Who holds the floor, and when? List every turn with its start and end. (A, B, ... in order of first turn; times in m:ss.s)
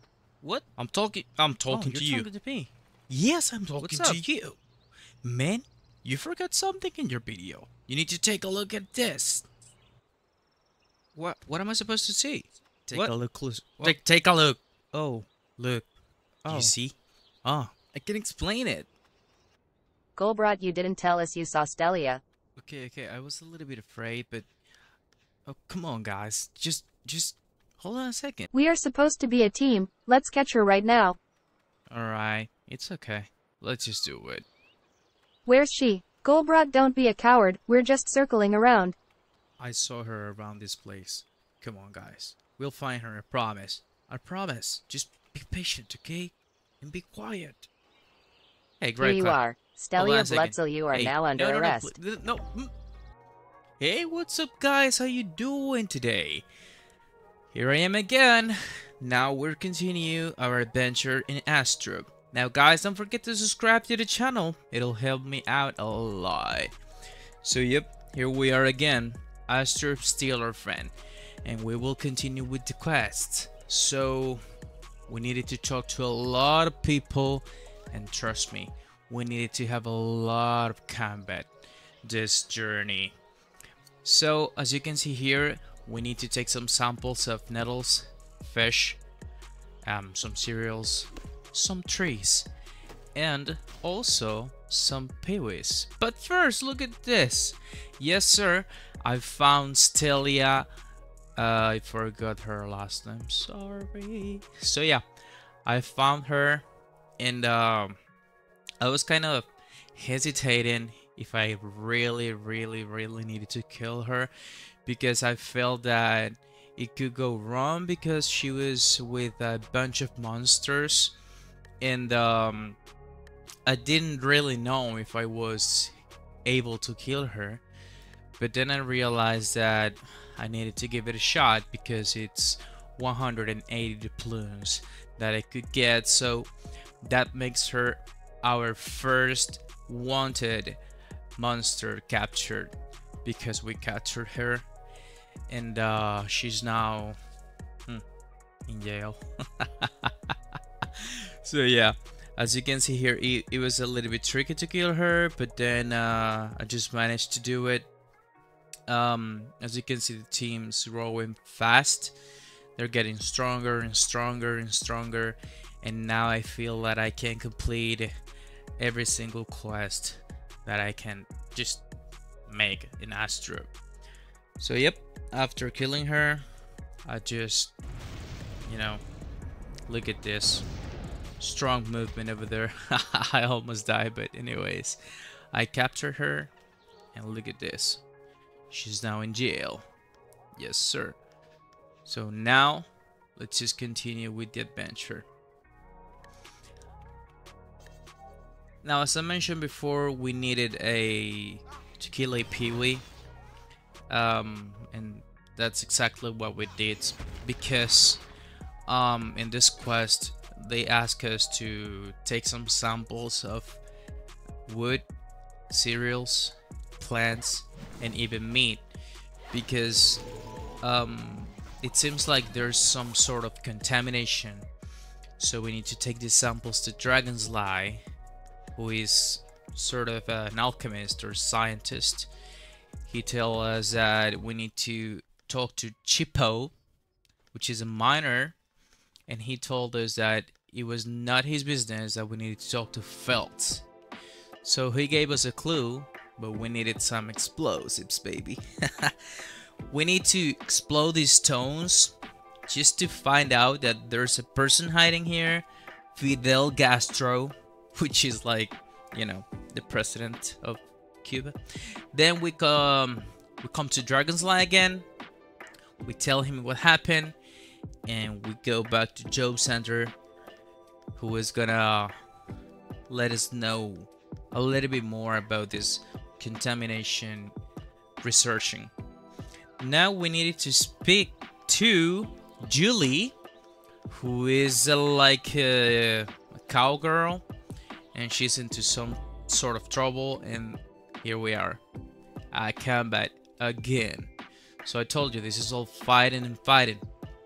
0:00.4-0:02.7 A
0:00.5-0:02.3 B
0:03.1-0:04.6 B
0:03.8-0:04.3 A
0:05.2-0:09.5 B
0:11.2-0:15.9 B
0:16.4-0:16.7 A
0:16.5-0:18.9 B
0:20.2-0:22.2 C
0:22.6-0:24.5 B
0:25.4-0:28.5 B
0:28.5-0:31.2 C
0:31.9-0:34.4 B
0:35.4-0:38.9 C
0:39.6-0:47.7 B
0:48.8-0:49.4 B
0:49.0-0:51.9 C
0:50.0-0:52.7 B
0:53.8-0:56.4 B
0:57.5-1:06.7 B
1:07.4-1:10.9 B
1:11.4-1:14.4 B
1:15.1-1:21.5 B
1:22.0-1:23.1 B
1:24.0-1:29.0 B
1:29.8-1:32.5 B
1:33.1-1:40.7 B
1:41.4-1:45.0 B
1:45.6-1:46.6 B
1:47.2-1:48.0 B
1:48.8-1:54.3 B
1:54.8-2:01.1 B
2:01.8-2:02.8 B
2:03.6-2:05.9 B
2:06.4-2:07.6 B
2:08.4-2:16.5 B
2:17.0-2:20.8 B
2:21.4-2:22.7 B
2:23.2-2:24.6 B
2:25.5-2:27.2 B
2:28.7-2:37.9 B
2:38.9-2:42.2 B
2:42.8-2:48.1 B
2:48.8-2:51.8 B
2:52.5-2:53.7 B
2:54.6-2:56.4 B
2:57.0-2:57.7 B
2:58.6-2:59.0 B
2:59.9-3:00.6 B
3:01.4-3:05.0 B
3:05.5-3:06.5 B
3:07.1-3:08.0 B
3:08.7-3:09.8 B
3:10.6-3:11.2 B
3:12.0-3:15.3 B
3:18.8-3:23.0 B
3:24.1-3:28.2 B
3:28.9-3:33.8 B
3:34.6-3:35.1 B
3:35.7-3:38.8 B
3:39.5-3:40.2 B
3:40.8-3:44.7 B
3:45.4-3:48.0 B
3:48.8-3:52.3 B
3:53.0-3:56.7 B
3:57.5-3:58.6 B
3:59.3-4:03.8 B
4:04.6-4:09.2 B
4:09.9-4:12.1 B
4:12.7-4:21.5 B
4:22.1-4:25.0 B
4:26.0-4:27.3 B
4:28.0-4:30.1 B
4:31.2-4:32.1 B
4:33.1-4:37.5 B
4:38.2-4:38.9 B
4:39.8-4:43.3 B
4:44.1-4:47.4 B
4:48.1-4:51.8 B
4:52.5-4:54.3 B
4:54.8-4:57.0 B